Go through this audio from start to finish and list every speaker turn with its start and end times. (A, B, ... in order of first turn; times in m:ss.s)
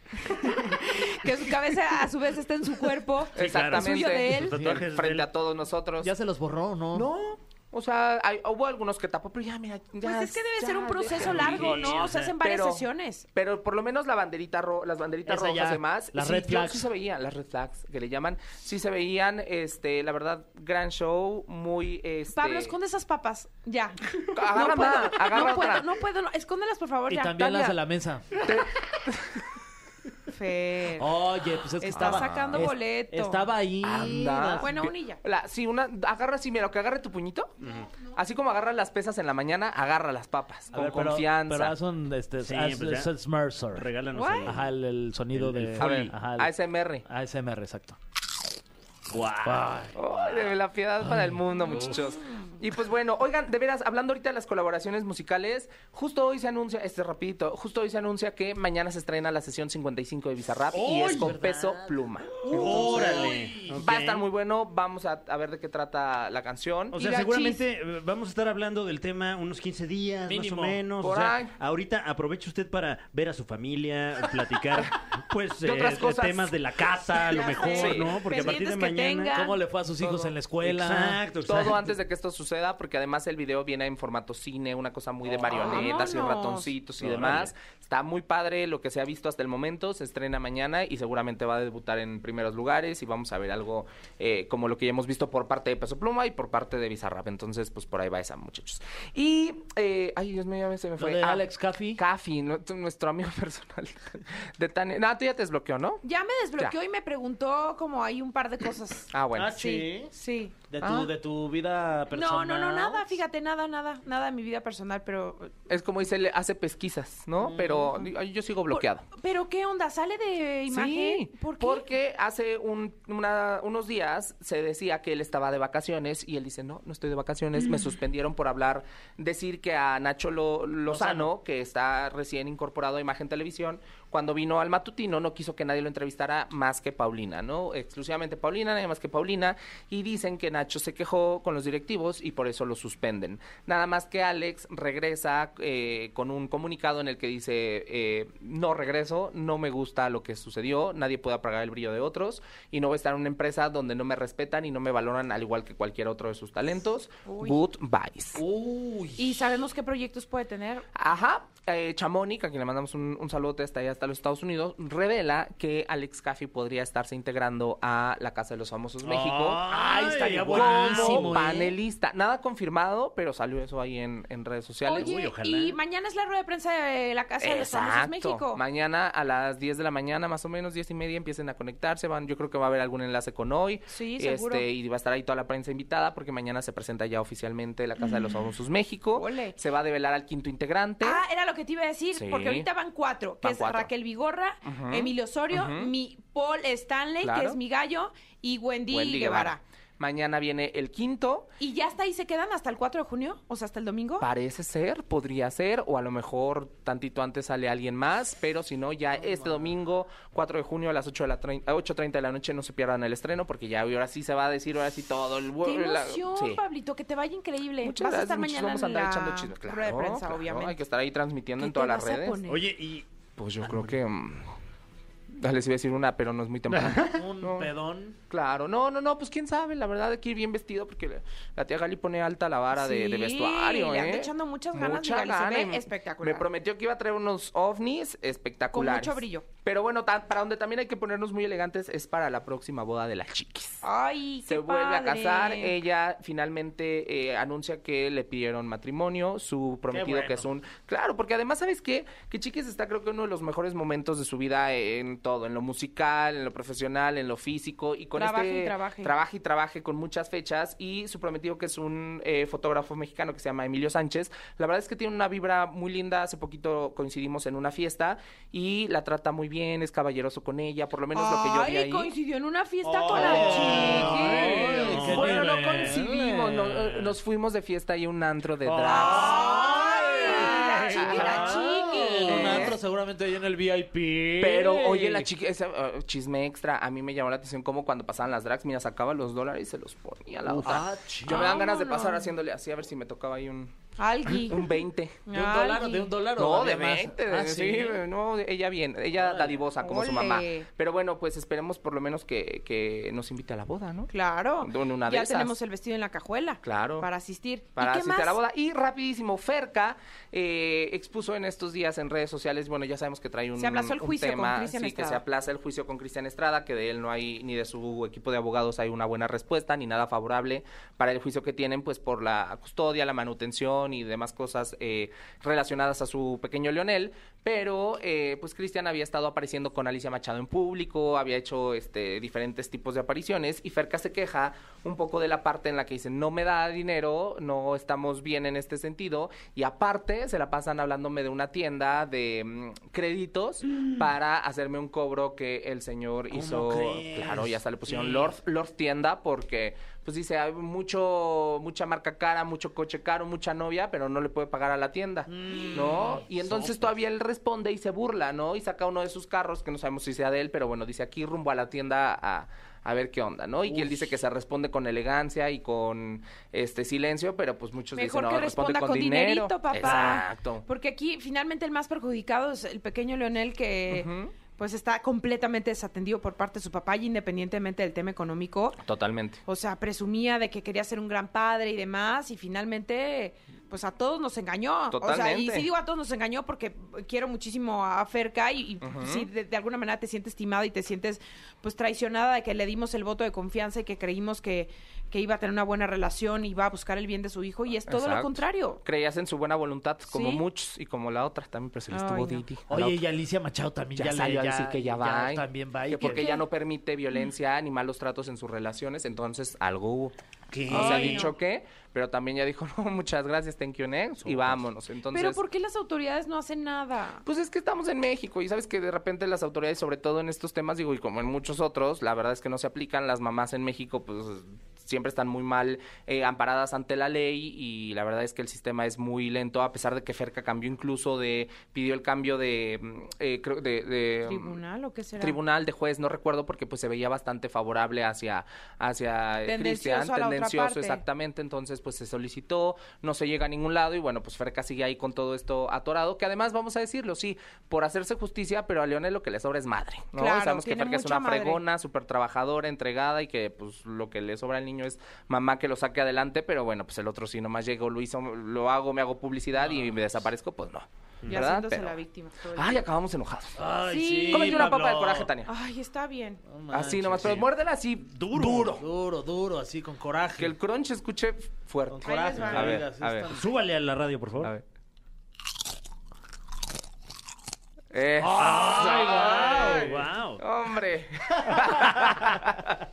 0:00.2-0:04.6 A
0:03.3-0:06.1 B
0:03.4-0:05.3 C
0:04.5-0:04.8 D
0:06.0-0:07.1 D
0:06.9-0:22.7 B
0:10.0-0:13.2 A
0:11.1-0:12.3 C
0:15.2-0:16.9 D
0:22.3-0:27.8 A
0:24.3-0:25.9 B
0:27.1-0:28.5 D
0:28.4-0:29.4 B
0:30.3-0:31.1 A
0:31.0-0:34.8 D
0:31.8-0:33.5 A
0:31.9-0:32.6 B
0:33.8-0:37.5 B
0:34.6-0:35.2 A
0:37.6-0:38.1 A
0:38.1-0:41.7 B
0:40.7-0:43.9 D
0:42.4-0:43.1 C
0:43.7-0:44.7 C
0:44.1-0:44.5 A
0:44.4-0:46.5 D
0:45.3-0:46.1 C
0:45.8-0:47.0 B
0:47.0-0:48.0 D
0:49.1-0:49.7 C
0:49.4-0:50.3 D
0:49.9-1:07.0 B
0:51.0-0:51.8 D
0:51.6-0:52.0 A
1:00.7-1:01.3 C
1:00.8-1:03.8 D
1:02.4-1:04.3 C
1:06.9-1:19.4 C
1:06.9-1:07.6 A
1:10.3-1:10.8 D
1:11.0-1:11.5 B
1:15.6-1:16.6 B
1:17.1-1:19.6 A
1:17.6-1:18.2 B
1:19.3-1:21.2 D
1:20.0-1:20.3 B
1:20.6-1:21.9 C
1:21.4-1:46.0 B
1:25.3-1:25.8 C
1:25.5-1:26.7 A
1:27.0-1:27.5 C
1:41.0-1:42.0 D
1:46.0-1:50.7 A
1:49.1-1:49.6 B
1:49.3-1:50.1 D
1:50.7-1:53.1 D
1:50.8-1:51.1 B
1:52.1-1:55.7 A
1:55.7-1:59.0 B
1:57.4-1:57.7 D
1:58.7-2:01.8 A
2:00.7-2:38.4 B
2:10.9-2:11.3 D
2:37.2-2:37.6 A
2:38.4-2:39.3 D
2:39.2-2:40.8 A
2:40.9-2:49.7 B
2:49.0-2:51.4 C
2:49.6-2:51.8 D
2:50.5-2:55.1 B
2:54.8-2:58.6 A
2:54.9-2:55.8 C
2:57.4-3:11.2 B
3:03.9-3:04.7 A
3:09.1-3:09.6 A
3:11.0-3:19.6 A
3:12.1-3:12.7 B
3:13.4-3:13.9 B
3:14.6-3:15.9 B
3:17.2-3:17.6 B
3:18.9-3:21.5 B
3:21.6-3:24.3 A
3:24.2-3:36.6 B
3:35.6-3:40.8 A
3:37.8-3:42.4 B
3:41.6-3:42.6 A
3:42.5-3:43.0 C
3:43.4-3:44.5 B
3:43.6-3:43.9 C
3:45.3-3:47.7 B
3:46.7-3:47.2 C
3:47.1-3:48.2 D
3:48.3-4:03.8 B
3:52.7-3:56.4 A
3:58.7-3:59.5 A
4:03.8-4:05.8 A
4:04.4-4:32.1 B
4:09.9-4:10.4 D
4:18.2-4:19.1 A
4:31.1-4:35.0 A
4:32.8-4:37.0 D
4:33.1-4:35.9 C
4:33.2-4:39.6 B
4:38.6-4:45.3 D
4:38.9-4:42.7 A
4:40.9-4:42.8 B
4:44.4-4:53.7 B
4:50.6-4:51.6 D
4:51.3-4:52.3 A
4:54.0-4:56.1 A
4:54.3-4:55.2 B
4:55.3-4:58.0 D
4:56.3-5:05.5 B
4:59.8-5:00.7 A
5:04.1-5:08.4 A
5:06.6-5:07.1 B
5:07.8-6:10.6 B
5:13.6-5:15.2 A
5:46.3-5:48.3 C
5:55.3-5:56.2 D
5:55.7-5:56.9 C
6:03.7-6:04.1 C
6:07.9-6:18.8 A
6:09.8-6:10.1 C
6:13.9-6:14.3 B
6:18.8-6:19.4 B
6:19.4-6:38.8 A
6:24.9-6:25.7 B
6:28.8-6:29.3 B
6:37.9-6:43.0 B
6:40.1-6:40.4 A
6:41.9-6:42.4 A
6:42.7-6:46.2 D
6:44.0-6:50.1 B
6:46.0-6:46.5 A
6:50.5-6:51.3 C
6:50.7-6:55.4 B
6:50.7-6:51.3 A
6:54.2-6:54.6 C
6:55.1-6:57.2 A
6:57.2-7:14.5 B
7:14.2-7:15.4 A
7:15.2-7:42.0 B
7:19.4-7:21.0 A
7:30.2-7:31.6 A
7:41.3-7:42.8 A
7:42.5-7:43.6 B
7:43.6-7:45.3 D
7:43.9-7:44.7 A
7:44.3-7:45.5 B
7:45.4-7:46.4 A
7:46.5-7:47.4 D
7:46.7-7:48.8 B
7:48.1-7:48.7 C
7:48.3-7:50.5 D
7:50.4-7:53.3 B
7:51.9-7:53.5 D
7:52.0-7:52.6 A
7:52.5-7:54.5 C
7:57.9-8:02.8 B
7:58.2-8:00.0 D
7:58.8-8:00.4 C